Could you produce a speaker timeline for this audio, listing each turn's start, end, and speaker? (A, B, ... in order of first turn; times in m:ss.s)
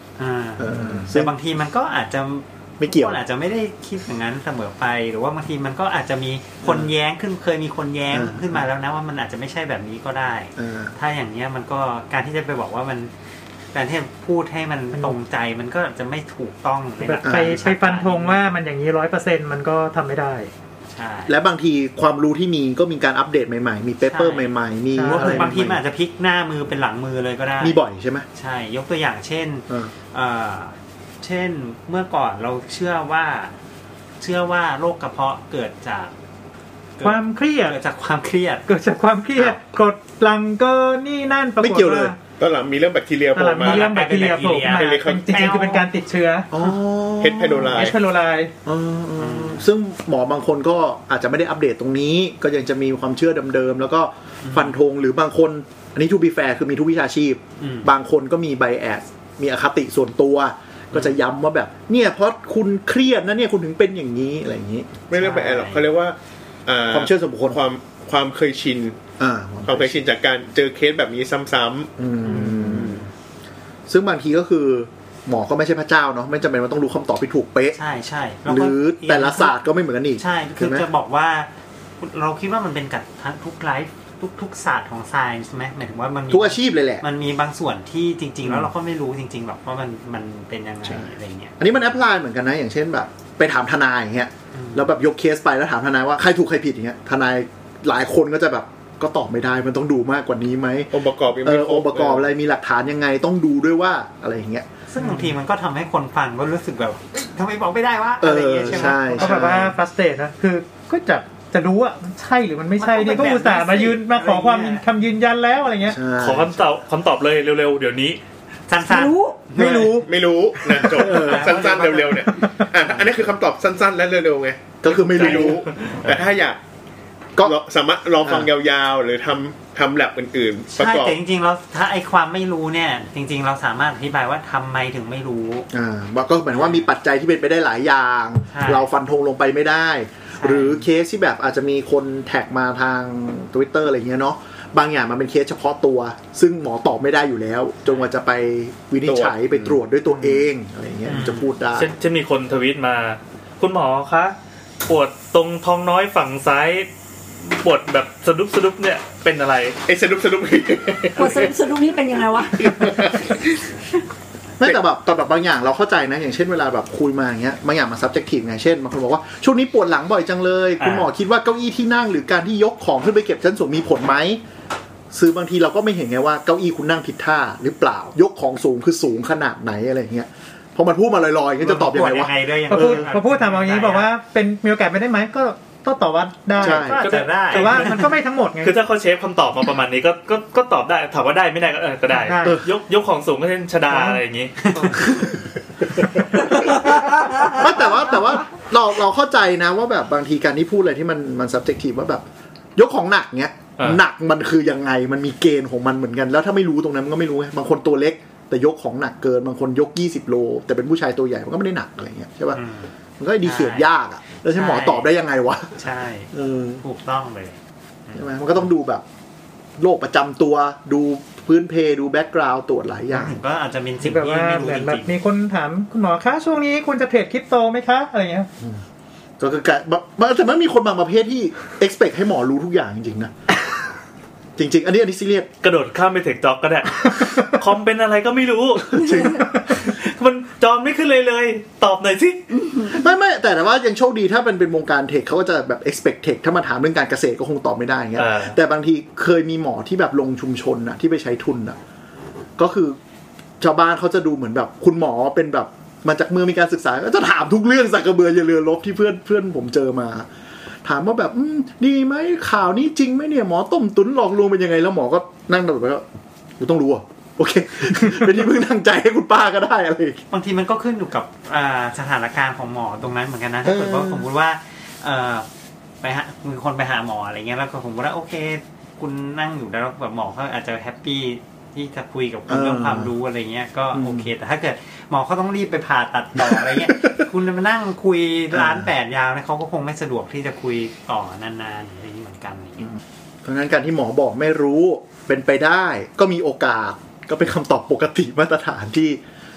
0:00.2-0:13.1 A
0:00.6-0:01.3 B
0:02.8-0:03.2 B
0:06.6-0:06.9 B
0:08.1-0:08.6 B
0:10.6-0:10.9 B
0:13.7-0:18.5 A
0:14.9-0:15.2 C
0:17.0-0:20.5 C
0:17.2-0:17.6 B
0:20.9-0:21.4 A
0:21.3-0:25.8 B
0:24.0-0:27.8 A
0:24.9-0:25.6 C
0:27.6-0:28.2 B
0:28.3-0:33.5 A
0:34.2-0:36.1 A
0:37.0-0:38.7 A
0:37.0-0:37.8 C
0:38.6-0:42.2 C
0:41.6-0:42.1 B
0:42.4-0:45.6 D
0:43.3-0:46.5 C
0:43.6-0:45.9 A
0:46.5-0:47.8 B
0:47.2-0:48.0 D
0:47.5-0:48.5 C
0:48.6-1:04.9 B
0:49.2-0:49.7 A
0:54.4-0:54.8 A
0:57.6-0:57.9 A
1:05.1-1:09.0 D
1:05.1-1:05.9 A
1:06.9-1:07.6 B
1:09.2-1:10.0 B
1:09.6-1:11.9 D
1:12.0-1:13.1 B
1:12.2-1:13.0 A
1:13.9-1:17.8 B
1:17.7-1:19.6 A
1:18.5-1:20.9 B
1:20.2-1:21.5 A
1:22.0-1:31.9 A
1:26.3-1:27.0 B
1:28.4-1:28.7 B
1:30.8-1:44.7 B
1:34.5-1:34.9 A
1:40.9-1:42.3 D
1:44.9-1:49.7 A
1:48.2-1:49.7 B
1:49.1-1:56.0 C
1:52.8-1:54.8 A
1:55.8-1:56.6 B
1:56.2-1:58.2 E
1:58.7-2:00.0 A
1:58.8-1:59.4 F
1:59.5-2:00.1 C
2:00.0-2:06.6 D
2:00.7-2:01.1 C
2:00.8-2:01.5 B
2:01.0-2:02.4 A
2:02.8-2:03.3 B
2:04.8-2:05.6 B
2:06.0-2:06.3 E
2:07.4-2:11.2 D
2:08.2-2:08.5 B
2:10.7-2:15.7 A
2:15.7-2:31.9 B
2:16.5-2:16.9 A
2:18.5-2:18.9 A
2:20.4-2:20.8 A
2:29.0-2:29.8 D
2:31.0-2:31.5 A
2:31.8-2:34.3 E
2:34.8-2:36.9 E
2:37.4-2:39.8 E
2:39.8-2:41.6 D
2:41.2-2:43.2 F
2:42.5-2:43.7 D
2:44.6-2:54.4 B
2:50.8-2:51.1 E
2:55.1-3:03.0 B
3:01.6-3:04.1 A
3:02.7-3:08.8 C
3:06.6-3:07.0 B
3:06.8-3:08.1 A
3:07.0-3:08.0 E
3:08.6-3:15.1 E
3:12.1-3:12.6 C
3:12.4-3:12.7 B
3:13.9-3:14.2 C
3:14.6-3:15.0 A
3:17.5-3:22.2 B
3:22.8-3:32.6 B
3:32.5-3:32.9 A
3:33.2-3:36.8 B
3:33.4-3:33.9 A
3:34.5-3:35.1 A
3:35.8-3:37.6 A
3:38.1-3:38.6 A
3:38.1-3:39.0 B
3:39.8-3:43.4 B
3:43.1-3:45.1 A
3:44.0-3:48.5 C
3:49.4-3:53.3 B
3:54.6-3:55.5 B
3:55.6-4:02.5 E
3:59.0-3:59.4 B
4:02.5-4:02.9 F
4:02.8-4:11.8 B
4:08.2-4:08.6 E
4:12.6-4:13.0 B
4:13.6-4:20.3 B
4:20.8-4:26.0 B
4:26.6-4:30.2 B
4:30.3-4:35.4 A
4:33.6-4:34.3 B
4:36.0-4:53.0 A
4:42.5-4:43.1 B
4:43.9-4:44.3 B
4:46.4-4:46.9 B
4:48.5-4:48.9 B
4:53.4-4:59.2 B